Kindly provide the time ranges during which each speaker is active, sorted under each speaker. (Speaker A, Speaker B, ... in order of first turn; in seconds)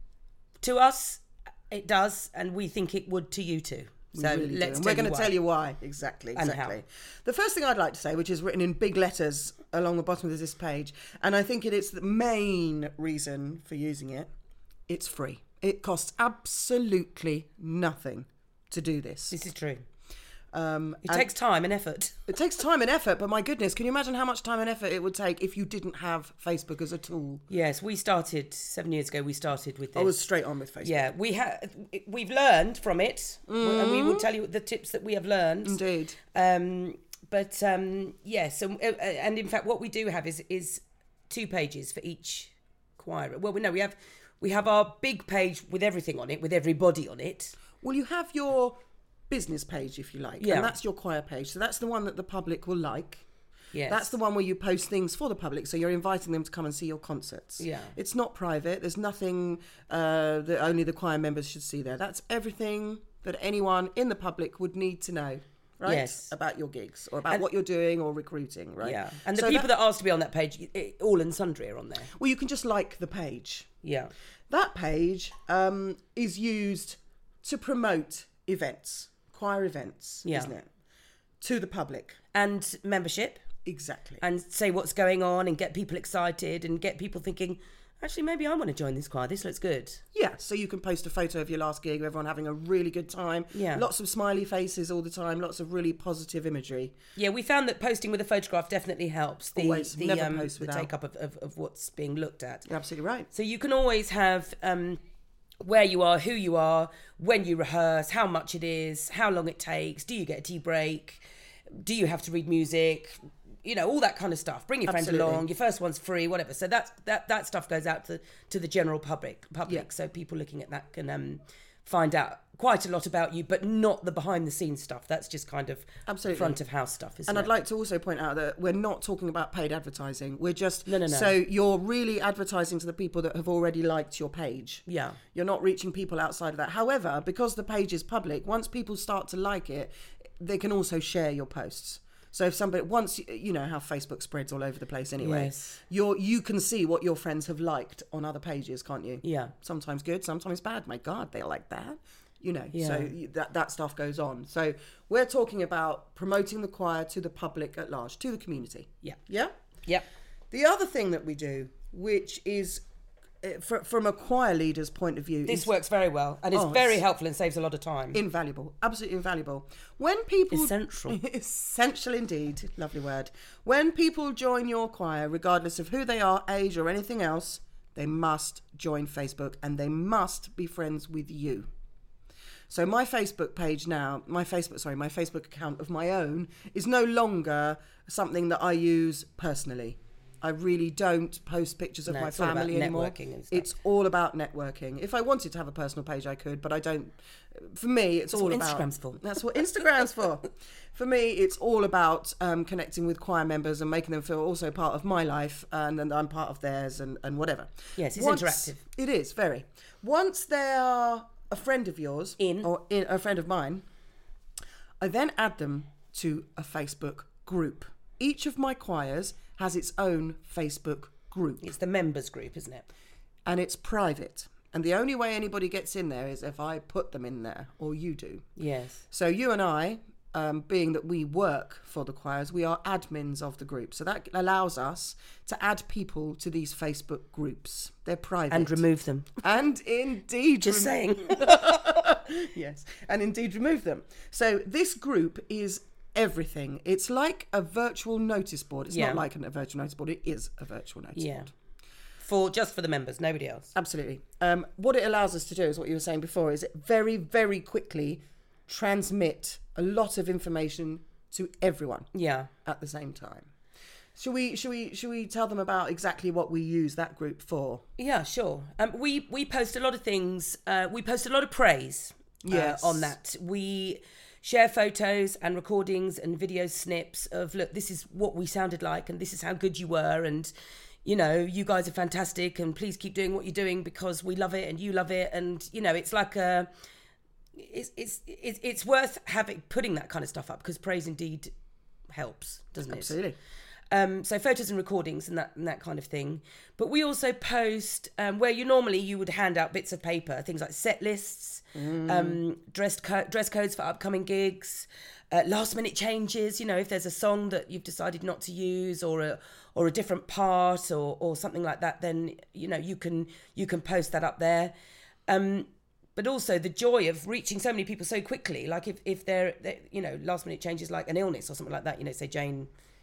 Speaker A: 0.6-5.3, 6.3-6.8, 19.3-19.8, 21.1-22.2, 27.5-30.1, 30.8-35.8, 36.3-47.6, 50.4-50.7, 53.7-54.1, 57.6-58.0, 65.8-66.3, 68.8-72.1, 73.8-74.1, 80.2-80.5, 82.3-83.4, 84.2-90.0, 93.5-93.9, 97.2-102.7, 103.3-105.0, 105.6-111.2, 111.8-127.5, 130.9-131.4, 134.9-135.2, 145.2-145.8, 149.2-149.5, 152.7-153.1, 165.5-168.2, 170.5-171.2, 192.1-193.7, 198.3-199.2, 208.0-208.8, 212.4-212.7, 221.6-222.9, 228.6-229.0, 238.5-239.3, 240.6-242.1, 248.9-249.2, 251.2-251.5, 252.2-253.7, 262.1-262.5, 268.0-280.5, 281.1-286.7, 287.6-291.5, 292.1-293.2, 293.9-314.7, 315.3-322.7
Speaker B: 4.1-14.3, 14.9-19.4, 20.5-21.3, 22.3-27.4, 29.9-31.1, 33.5-34.3, 35.6-36.2, 47.8-48.8, 49.3-53.2, 53.9-69.7, 72.1-73.7, 74.5-80.7, 81.4-82.2, 83.7-84.2, 90.1-97.0, 99.5-100.9, 102.7-103.3, 114.9-115.4, 126.1-126.6, 127.3-159.5, 160.5-162.8, 163.4-165.7, 166.5-167.0, 168.1-181.7, 182.7-213.8, 215.0-221.7, 223.5-228.4, 229.1-238.8, 239.4-251.5, 253.7-262.1, 262.6-263.5, 264.2-267.8, 272.4-273.1, 292.9-293.4, 301.8-302.4